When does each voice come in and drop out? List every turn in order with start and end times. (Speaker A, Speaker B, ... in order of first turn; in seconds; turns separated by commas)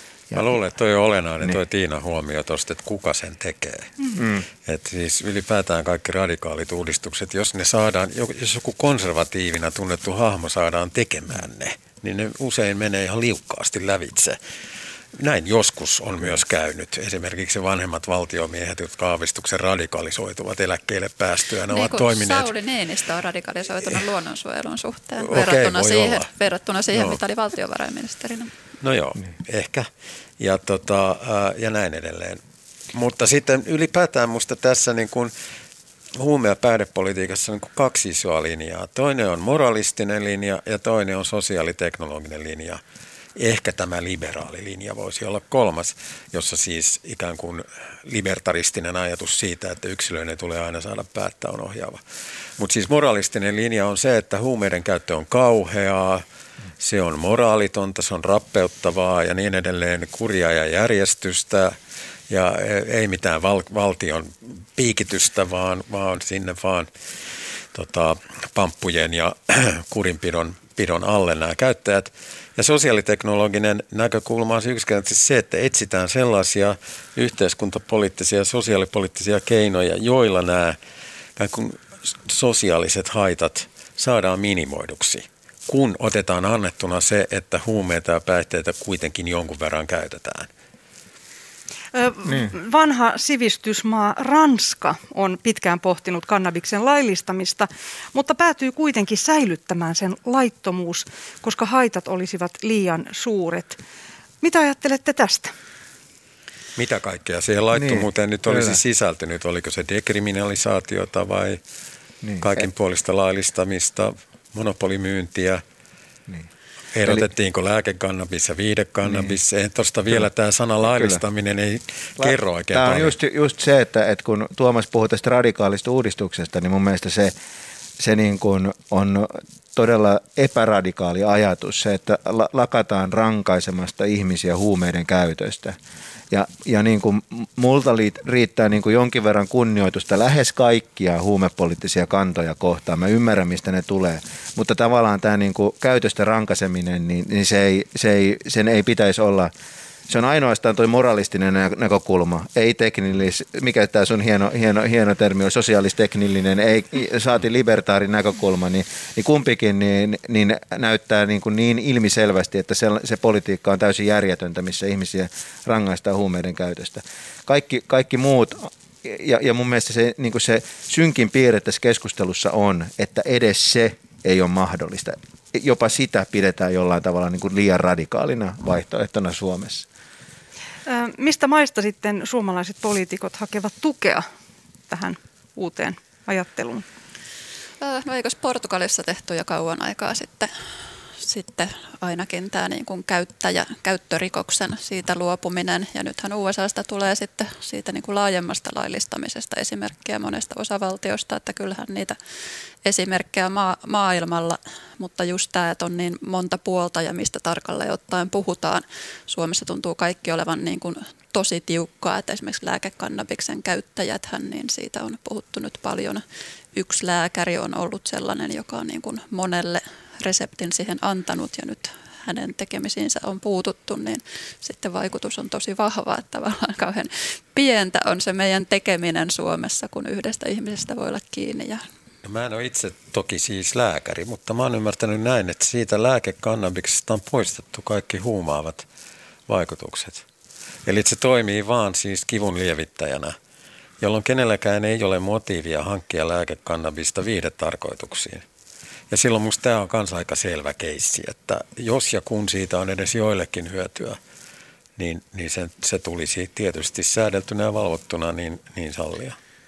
Speaker A: 0.3-3.9, Speaker B: 4.2-4.5, Speaker A: 4.6-14.4, Speaker A: 15.1-22.5, Speaker C: 21.7-28.5, Speaker A: 25.2-26.3, Speaker A: 26.9-27.2, Speaker A: 28.8-29.9, Speaker A: 30.4-32.4, Speaker A: 32.9-35.3, Speaker A: 36.1-42.8, Speaker A: 43.4-52.0, Speaker A: 52.6-56.2, Speaker A: 56.8-61.7, Speaker A: 62.3-66.9, Speaker A: 67.7-80.8, Speaker A: 81.4-90.5, Speaker D: 91.9-103.8, Speaker D: 104.4-105.5, Speaker A: 106.8-111.6, Speaker B: 107.7-108.8, Speaker B: 112.2-112.5, Speaker A: 112.4-115.6, Speaker A: 116.9-123.1, Speaker B: 119.0-119.3, Speaker B: 120.8-121.2, Speaker B: 122.2-127.3, Speaker B: 128.0-135.8, Speaker B: 136.3-149.5, Speaker B: 150.1-179.8, Speaker D: 180.8-184.2, Speaker D: 184.9-186.8, Speaker C: 187.8-190.5, Speaker C: 191.2-202.2, Speaker C: 202.8-216.2, Speaker C: 216.7-231.8, Speaker A: 232.2-238.8, Speaker A: 239.5-240.2, Speaker A: 240.8-243.3, Speaker A: 244.0-248.4, Speaker A: 249.1-254.2, Speaker A: 255.0-259.4